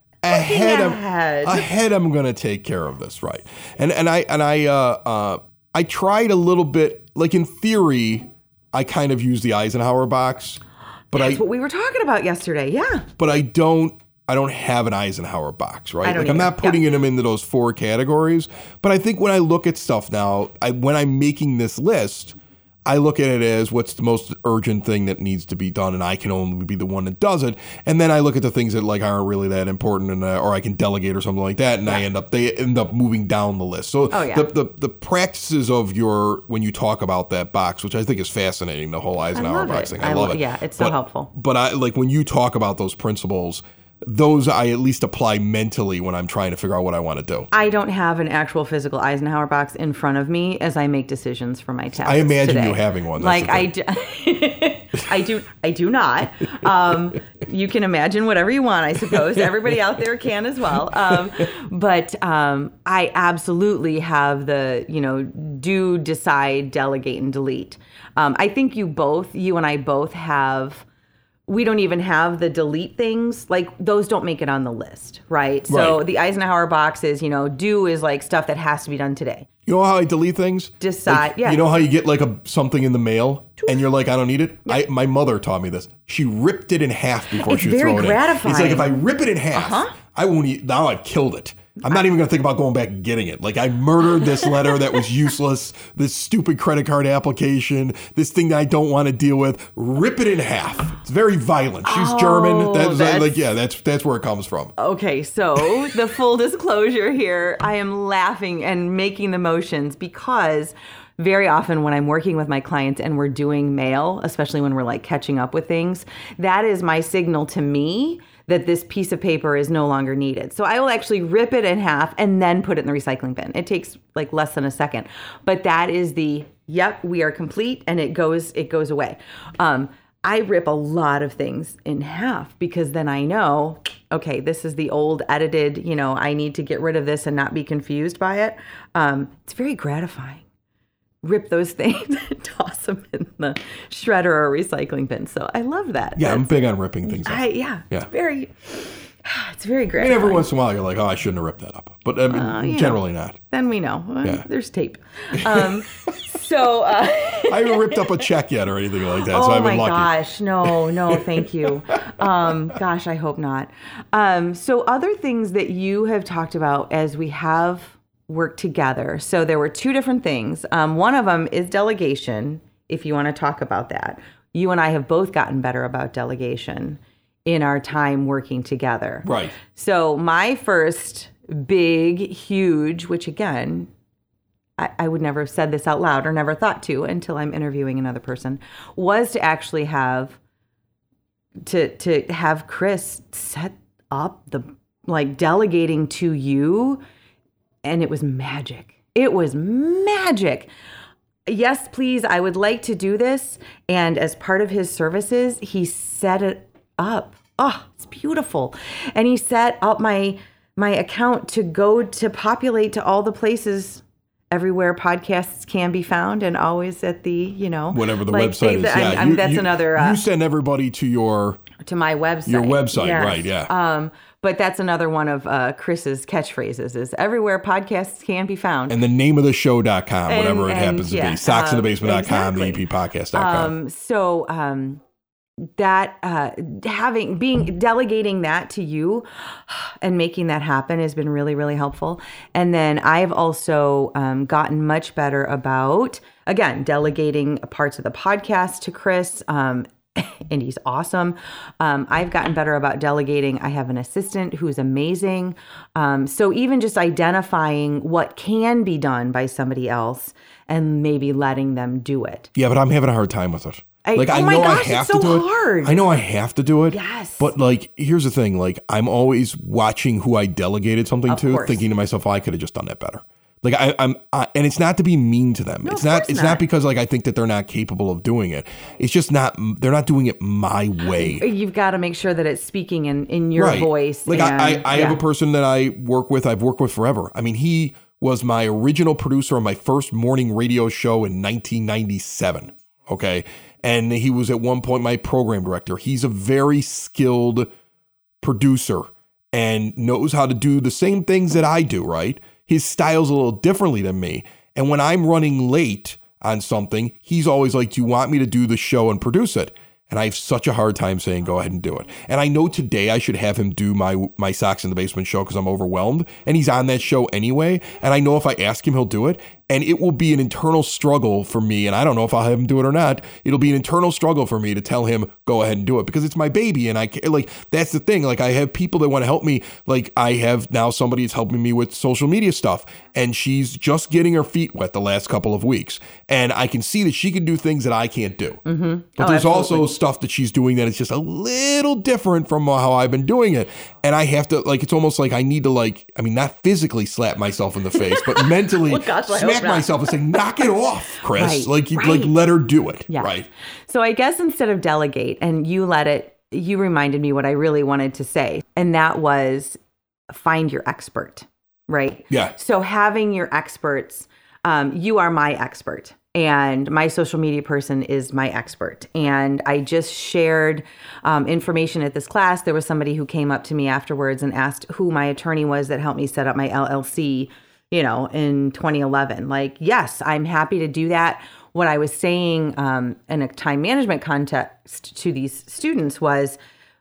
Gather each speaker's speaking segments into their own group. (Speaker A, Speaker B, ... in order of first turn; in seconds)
Speaker A: 0.2-11.4, 13.2-47.5, 52.0-53.7, 59.2-59.4, 61.1-61.4, 75.7-76.0, 79.7-104.8, 146.2-148.1, 150.0-153.4, 155.3-155.8, 157.4-160.1, 160.6-162.3, 179.2-179.6, 217.9-221.6, 222.5-223.7, 228.9-233.7, 262.6-281.5, 283.6-297.7, 298.4-338.6, 339.2-353.5, 362.3-362.6
Speaker B: 0.3-1.7, 11.2-13.1, 16.0-16.8, 34.1-34.5, 39.3-41.3, 47.5-70.9, 71.5-79.5, 80.8-81.6, 87.4-88.9, 89.5-90.0, 101.8-103.4, 104.8-140.4, 141.2-150.5, 152.3-158.1, 159.1-183.9, 184.8-190.4, 191.7-197.0, 197.8-200.7, 201.5-220.2, 221.8-229.0, 230.3-235.0, 235.8-262.5, 264.1-266.1, 266.9-267.5, 271.3-271.8, 275.8-276.6, 281.1-285.2, 338.6-339.9, 347.9-350.2, 351.4-352.3, 353.1-353.4, 353.9-359.8, 360.3-386.6